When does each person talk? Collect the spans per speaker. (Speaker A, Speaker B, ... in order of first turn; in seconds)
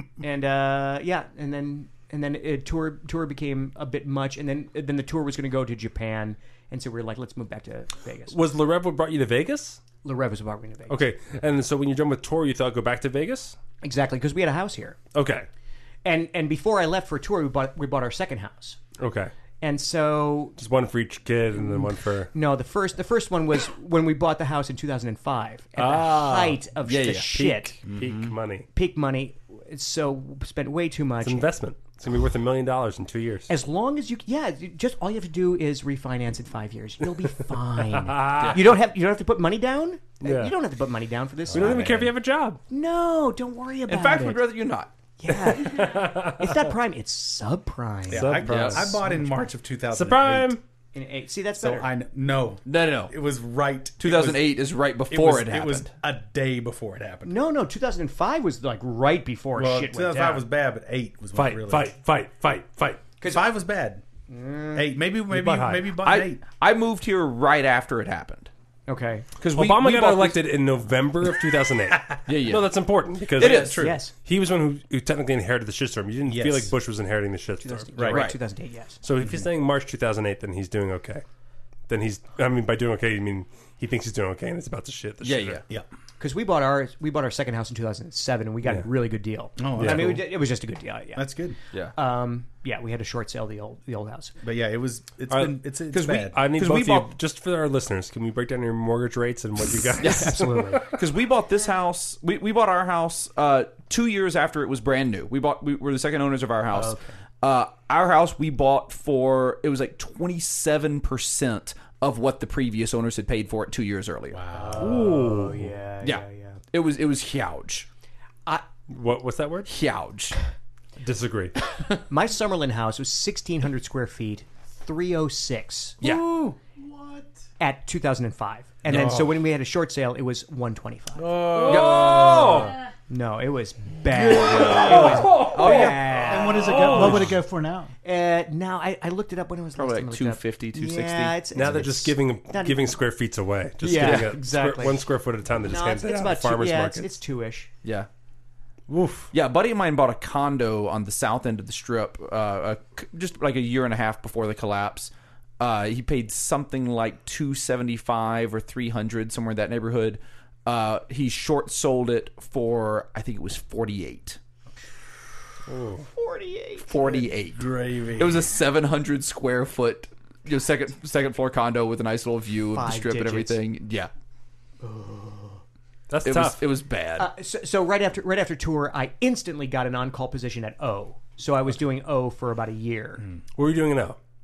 Speaker A: 0.2-8.4, 10.0-11.1, 13.8-15.0, 16.0-18.8, 19.6-20.6, 21.6-27.8, 28.7-31.5, 33.5-42.1, 42.7-44.5, 45.2-48.4, 48.9-49.5, 50.9-51.9, 57.2-60.4, 63.2-63.5, 64.3-64.9, 68.9-69.3, 73.8-74.1, 77.6-79.0, 86.2-91.3, 91.9-94.3, 100.0-100.9, 106.7-107.1, 114.5-116.6, 122.1-126.0, 127.6-132.3, 133.1-137.3, 138.0-142.9, 143.8-145.0, 145.6-147.7, 166.1-166.9, 172.7-173.6, 174.8-175.6, 177.2-183.2
Speaker B: 8.3-9.8, 10.9-13.6, 15.1-15.5, 19.0-19.3, 20.6-22.3, 25.8-26.6, 27.3-28.7, 31.2-33.5, 37.9-38.6, 40.2-40.5, 41.5-42.6, 45.3-46.6, 48.1-48.9, 49.9-50.6, 61.3-63.0, 65.3-65.9, 69.5-77.9, 79.0-81.2, 81.9-85.6, 89.8-90.2, 95.3-101.0, 114.8-115.7, 118.9-119.7, 121.0-121.5, 128.9-129.2, 131.5-132.7, 134.6-135.8, 136.6-137.4, 141.5-147.1, 148.9-149.3, 165.7-166.1, 176.1-176.7, 183.6-184.2
Speaker C: 26.1-27.3, 38.3-38.6, 43.9-44.9, 48.5-48.9, 52.6-53.1, 54.0-55.9, 66.0-68.5, 69.4-70.4, 72.3-72.7, 73.4-73.8, 78.1-78.4, 85.2-85.6, 95.9-97.1, 100.0-100.3, 100.9-114.4, 116.0-117.8, 119.7-120.3, 131.7-132.7, 134.2-137.1, 139.7-141.4, 143.9-144.3, 149.3-164.4, 166.8-174.1, 176.2-177.3
Speaker D: 27.9-28.3, 41.5-41.9, 48.1-50.5, 51.6-57.3, 59.5-61.9, 63.2-64.0, 64.7-66.4, 73.4-74.0, 76.3-76.7, 77.9-78.3, 79.2-79.5, 89.6-90.2, 91.1-91.6, 94.4-96.5, 114.3-115.1, 126.0-127.3, 128.9-129.2, 131.1-132.7, 134.1-137.1, 167.0-168.5
Speaker E: 135.7-137.9